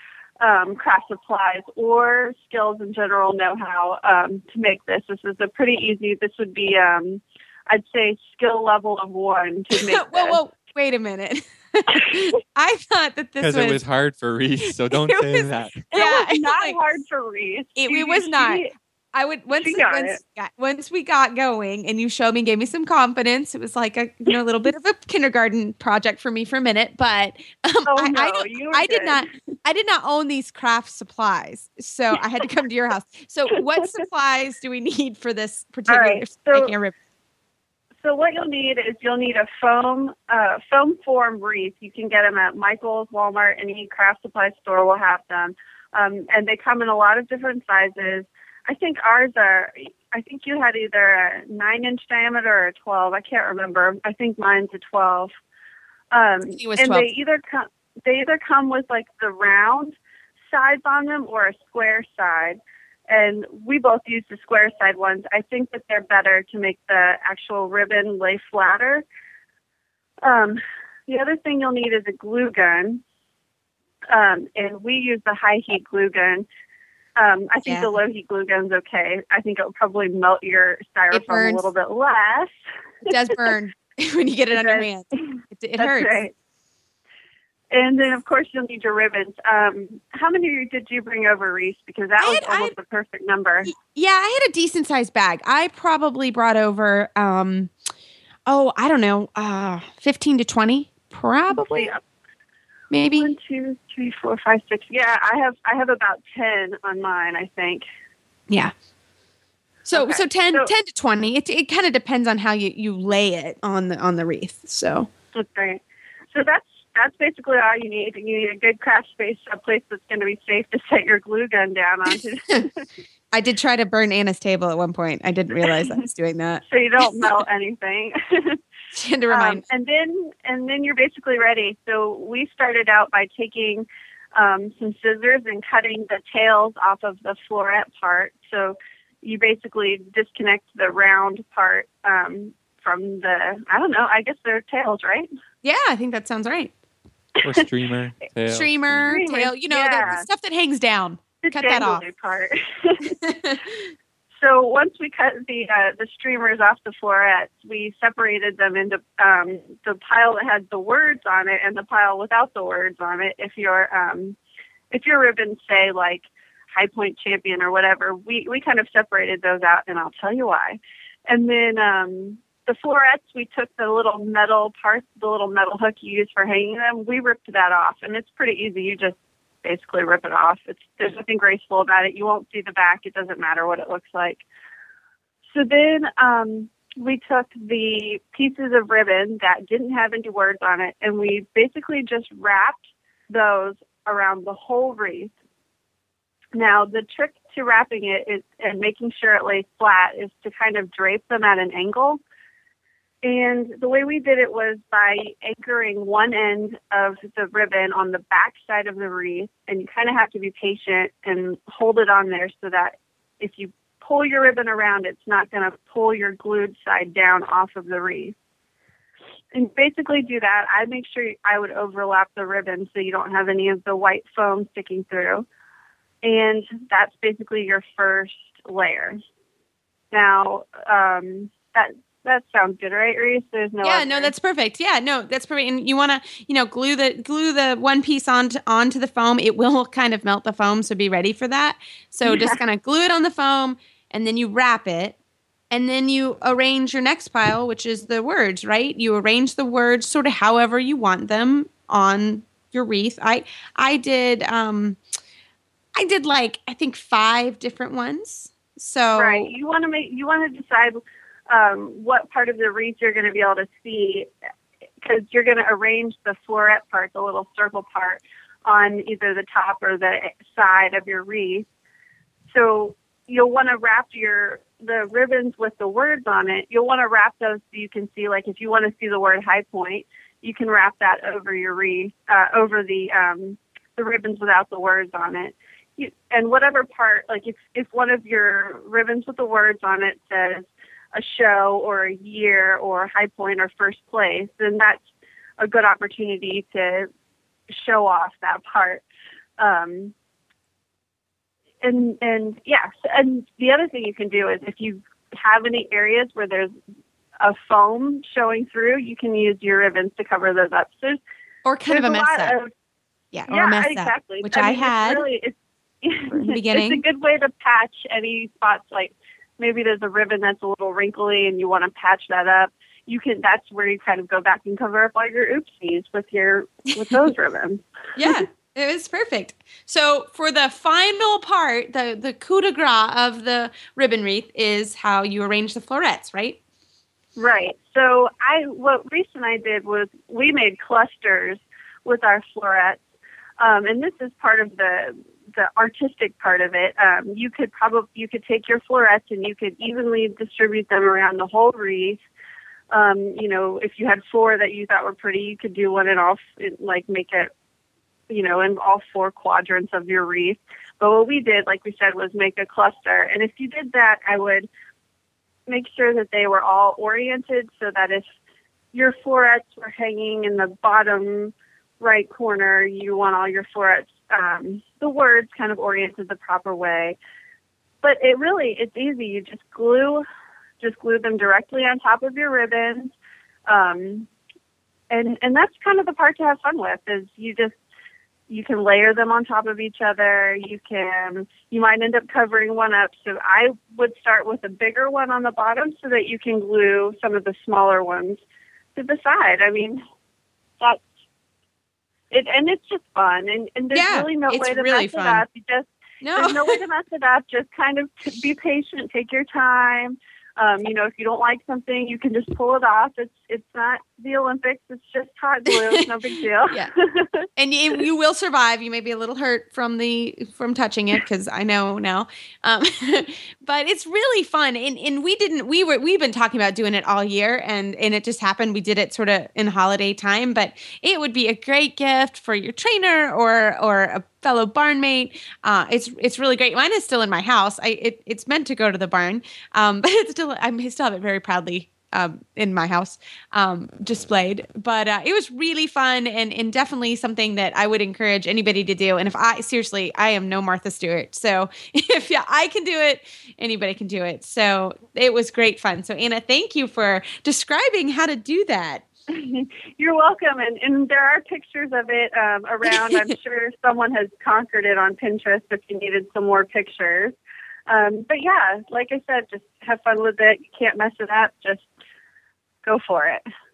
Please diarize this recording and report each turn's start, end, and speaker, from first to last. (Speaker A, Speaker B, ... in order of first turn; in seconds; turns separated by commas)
Speaker A: 0.4-10.4, Speaker B: 9.7-13.8, Speaker C: 13.4-15.8, Speaker B: 14.9-16.8, Speaker A: 15.9-18.7, Speaker B: 17.8-36.9, Speaker A: 19.5-20.2, Speaker A: 27.9-29.2, Speaker A: 35.9-36.7, Speaker A: 38.0-55.3, Speaker A: 56.1-60.0, Speaker B: 56.5-57.1, Speaker A: 60.5-69.0, Speaker A: 70.2-73.0, Speaker A: 74.1-76.5, Speaker A: 77.2-82.5, Speaker B: 77.7-77.9, Speaker B: 81.1-81.7, Speaker B: 83.1-86.2, Speaker A: 84.5-84.8, Speaker A: 85.8-86.3, Speaker A: 87.7-93.7, Speaker B: 92.2-92.7, Speaker B: 93.6-97.7, Speaker B: 98.5-101.9, Speaker A: 101.5-102.0, Speaker B: 102.9-103.3, Speaker A: 103.1-107.8, Speaker B: 109.8-115.1, Speaker A: 109.9-110.7, Speaker A: 115.3-115.8, Speaker A: 116.3-122.8, Speaker B: 123.3-126.6, Speaker A: 126.7-128.6, Speaker B: 128.9-129.6, Speaker A: 129.3-145.3, Speaker B: 145.6-146.7, Speaker C: 147.4-149.2, Speaker B: 148.5-152.1, Speaker A: 149.1-150.2, Speaker A: 151.4-153.1, Speaker B: 153.0-153.6, Speaker A: 154.4-164.4, Speaker A: 164.9-184.4, Speaker A: 185.5-195.3, Speaker A: 196.5-202.2, Speaker A: 203.2-218.3, Speaker A: 219.5-225.4, Speaker A: 226.2-229.2, Speaker A: 230.1-234.3, Speaker B: 233.8-245.2, Speaker A: 242.2-242.6, Speaker B: 245.7-255.0, Speaker B: 255.9-259.5, Speaker A: 259.1-264.3, Speaker A: 265.0-271.6, Speaker A: 272.5-295.0, Speaker A: 295.6-297.1, Speaker A: 297.7-299.0, Speaker A: 299.6-300.1, Speaker A: 301.8-306.7, Speaker A: 307.4-311.2, Speaker B: 311.6-312.6, Speaker A: 311.9-312.7, Speaker B: 313.3-315.2, Speaker A: 313.5-328.4, Speaker B: 316.3-317.0, Speaker B: 328.2-336.6, Speaker A: 337.4-343.0, Speaker A: 343.6-352.2, Speaker A: 352.9-357.5, Speaker A: 358.3-364.7, Speaker A: 365.7-368.3, Speaker A: 368.9-377.2, Speaker A: 378.0-380.2, Speaker A: 380.8-383.1, Speaker A: 383.7-384.3, Speaker A: 385.1-387.7, Speaker A: 388.5-398.4, Speaker A: 398.9-400.0, Speaker A: 402.3-417.4, Speaker B: 403.9-405.4, Speaker B: 406.2-406.8, Speaker B: 415.7-416.0, Speaker B: 417.6-459.0, Speaker A: 459.3-467.3, Speaker A: 467.9-471.9, Speaker A: 472.8-473.4